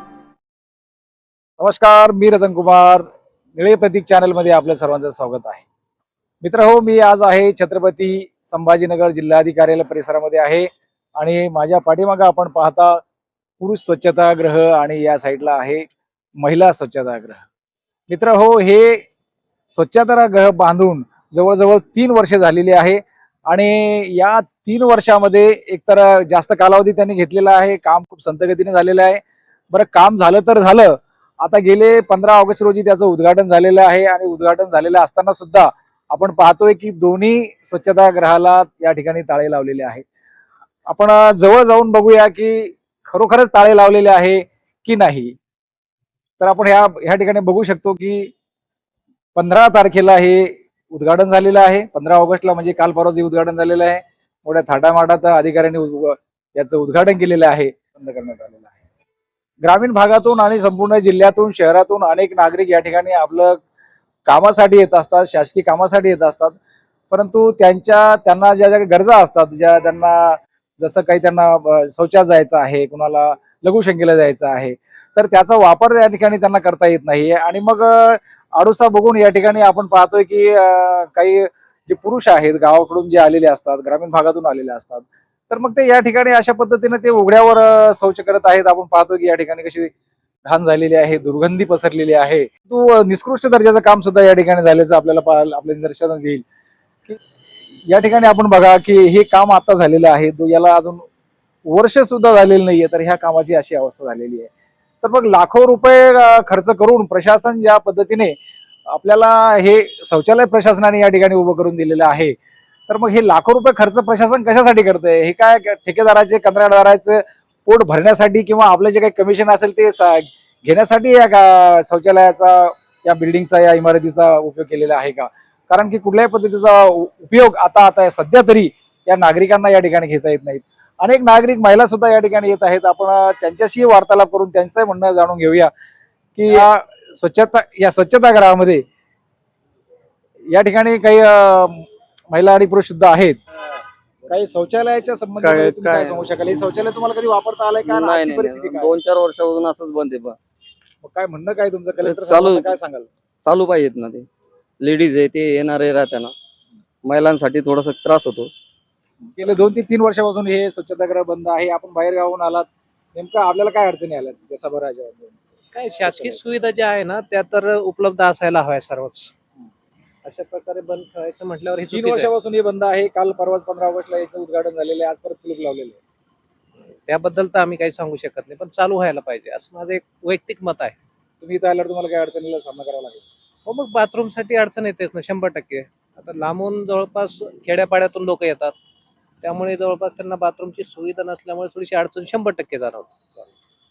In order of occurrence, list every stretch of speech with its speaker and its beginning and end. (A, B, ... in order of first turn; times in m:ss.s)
0:01.6-0:05.6 A
0:06.4-0:13.0 A
0:13.6-0:15.9 A
0:16.4-0:17.4 A
0:18.1-0:19.1 A
0:19.7-0:29.2 A
0:29.7-0:40.0 A
0:40.9-0:45.4 A
0:46.4-0:48.3 A
0:49.4-0:58.7 A
0:59.6-1:03.6 A
1:04.3-1:06.6 A
1:07.1-1:29.9 A
1:30.5-1:36.4 A
1:37.9-1:41.0 A
1:41.7-1:44.5 A
1:45.0-1:48.4 A
1:48.9-1:52.4 A
1:52.9-2:15.7 A
2:16.4-2:18.8 A
2:20.5-2:23.4 A
2:24.3-2:28.9 A
2:25.4-2:26.3 B
2:27.8-2:30.4 B
2:31.0-2:33.1 A
2:32.0-2:32.8 B
2:33.4-2:34.3 B
2:34.8-2:36.3 B
2:37.0-2:38.5 B
2:39.3-2:45.4 A
2:45.9-2:46.4 A
2:46.1-2:49.3 C
2:50.3-2:51.9 C
2:51.9-2:56.0 A
2:57.1-3:00.9 C
3:01.4-3:03.2 A
3:03.7-3:08.7 C
3:09.4-3:13.0 C